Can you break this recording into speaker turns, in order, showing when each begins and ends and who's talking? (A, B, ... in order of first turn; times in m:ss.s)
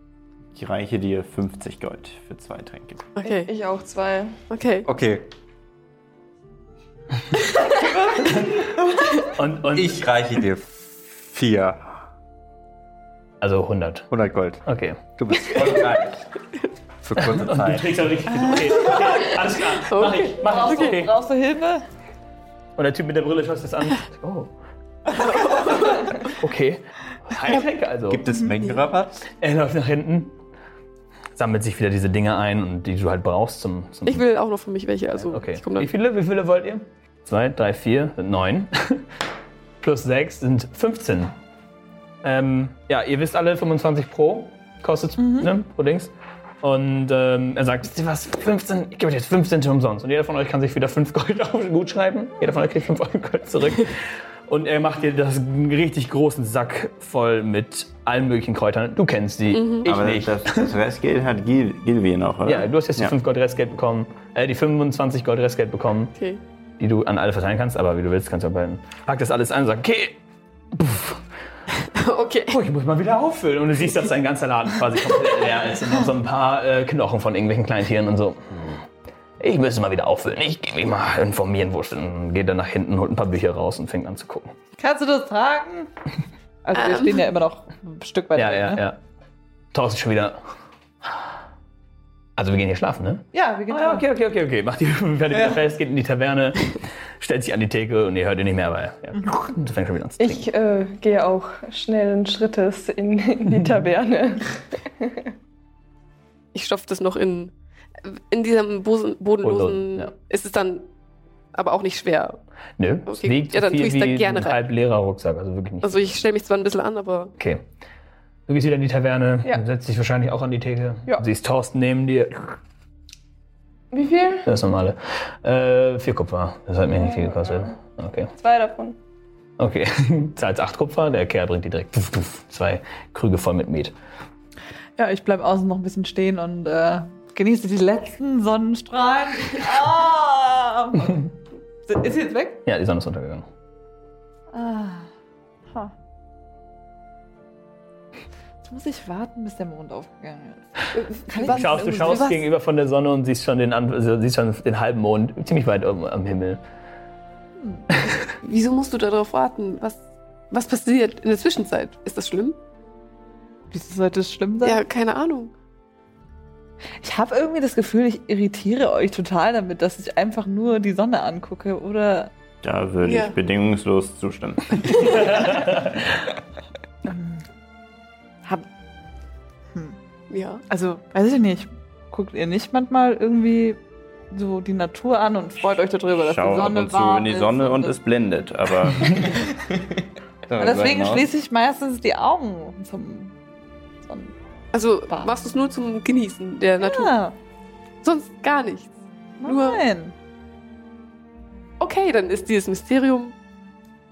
0:00.5-0:03.1 A
0:03.2-0:03.5 B
0:03.2-0:04.3 C
0:04.5-0:04.9 B
0:04.8-0:05.2 D
0:09.3-0:10.0 E
0:09.7-0:11.9 D
0:13.4-0:14.1 E
0:14.1-0:14.6 D
0:14.6-0:15.0 E
0:15.2-0:16.1 D
0:15.5-0:16.2 A
0:17.0-0:17.9 D
0:17.2-0:21.1 E
0:19.8-0:21.0 B
0:20.4-0:21.8 F
0:22.8-0:24.5 E
0:25.1-0:26.4 B
0:26.3-0:28.3 E
0:28.1-0:29.2 D
0:28.3-0:28.5 F
0:29.3-0:30.4 E
0:31.4-0:34.2 E
0:34.1-0:35.9 B
0:35.2-0:39.1 E
0:39.8-0:41.3 E
0:42.2-1:00.7 E
0:45.2-0:45.5 F
0:59.5-0:59.9 B
0:59.8-1:03.1 A
1:02.4-1:06.1 E
1:06.8-1:10.2 E
1:10.7-1:11.2 E
1:11.9-1:12.6 B
1:12.5-1:18.9 E
1:19.4-1:24.5 E
1:24.8-1:25.9 F
1:26.6-1:28.8 F
1:26.7-1:27.2 B
1:28.4-1:29.0 E
1:29.7-1:30.4 E
1:32.4-1:40.4 E
1:33.3-1:34.1 F
1:40.2-1:45.3 C
1:46.5-1:47.5 B
1:48.0-1:50.9 B
1:49.4-1:50.1 E
1:51.5-1:52.4 B
1:52.8-1:56.0 E
1:53.1-1:54.6 B
1:55.8-1:57.3 B
1:57.4-1:57.6 E
1:58.5-2:02.6 E
2:03.9-2:04.5 C
2:04.4-2:08.3 E
2:07.0-2:07.7 C
2:08.4-2:09.0 C
2:09.6-2:13.9 E
2:15.0-2:21.2 F
2:21.9-2:22.6 F
2:22.7-2:23.5 E
2:24.5-2:25.1 F
2:28.6-2:32.3 F
2:31.0-2:32.4 B
2:31.5-2:36.6 E
2:37.9-2:38.2 E
2:38.3-2:42.6 B
2:43.7-2:44.8 F
2:44.6-2:45.5 B
2:47.0-2:52.3 F
2:52.6-2:55.5 A
2:53.0-2:53.4 B
2:55.2-2:56.2 E
2:57.0-2:57.4 F
3:00.3-3:00.6 B
3:00.7-3:03.8 F
3:04.3-3:08.0 F
3:06.2-3:09.7 A
3:10.5-3:11.3 A
3:10.6-3:13.4 F
3:14.0-3:14.3 F
3:14.7-3:17.2 B
3:16.8-3:17.4 F
3:18.0-3:18.9 B
3:19.4-3:20.2 F
3:19.4-3:19.8 B
3:21.8-3:23.3 B